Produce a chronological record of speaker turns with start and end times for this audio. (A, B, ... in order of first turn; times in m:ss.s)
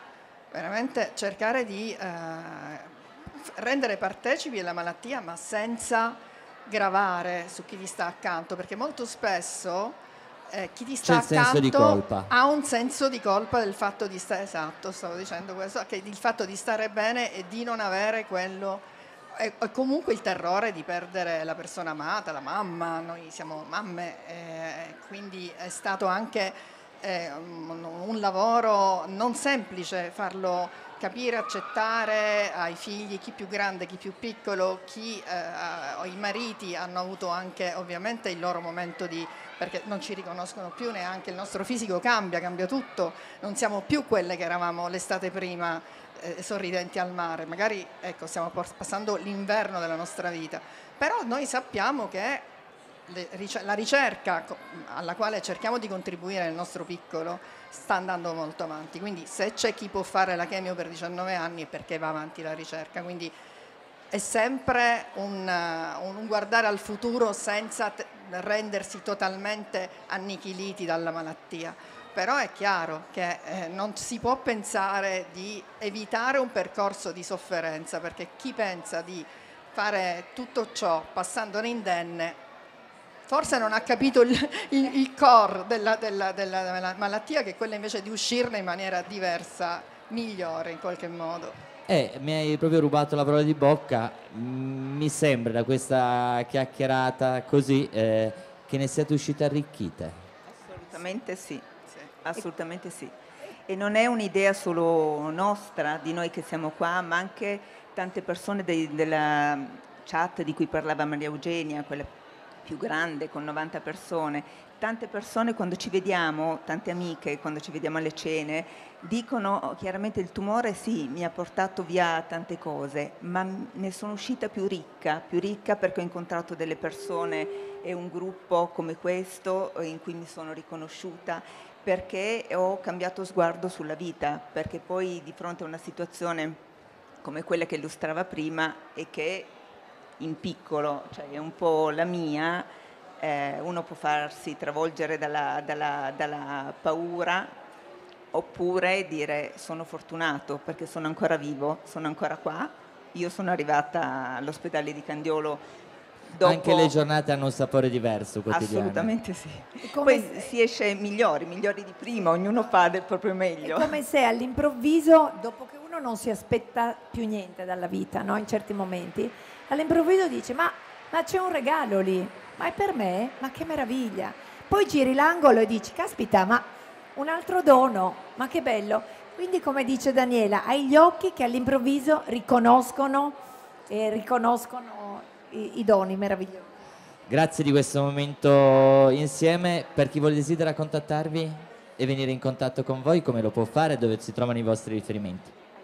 0:00.5-0:02.9 A
0:03.6-0:52.5 A
0:11.0-0:12.3 B
0:53.1-1:03.3 A
1:04.1-1:22.4 A
1:23.3-1:31.6 A
1:31.9-1:40.2 B
1:40.5-1:41.6 C
1:42.2-1:43.1 C
1:43.7-1:52.1 C
1:52.6-2:16.6 C
2:17.2-2:19.5 C
2:20.2-2:22.7 C
2:23.2-2:27.6 C
2:28.3-2:35.6 C
2:36.3-2:37.0 C
2:36.4-2:39.1 B
2:38.5-2:44.0 C
2:39.8-2:40.5 D
2:43.6-3:03.4 D
3:03.9-3:06.7 D
3:07.3-3:15.5 B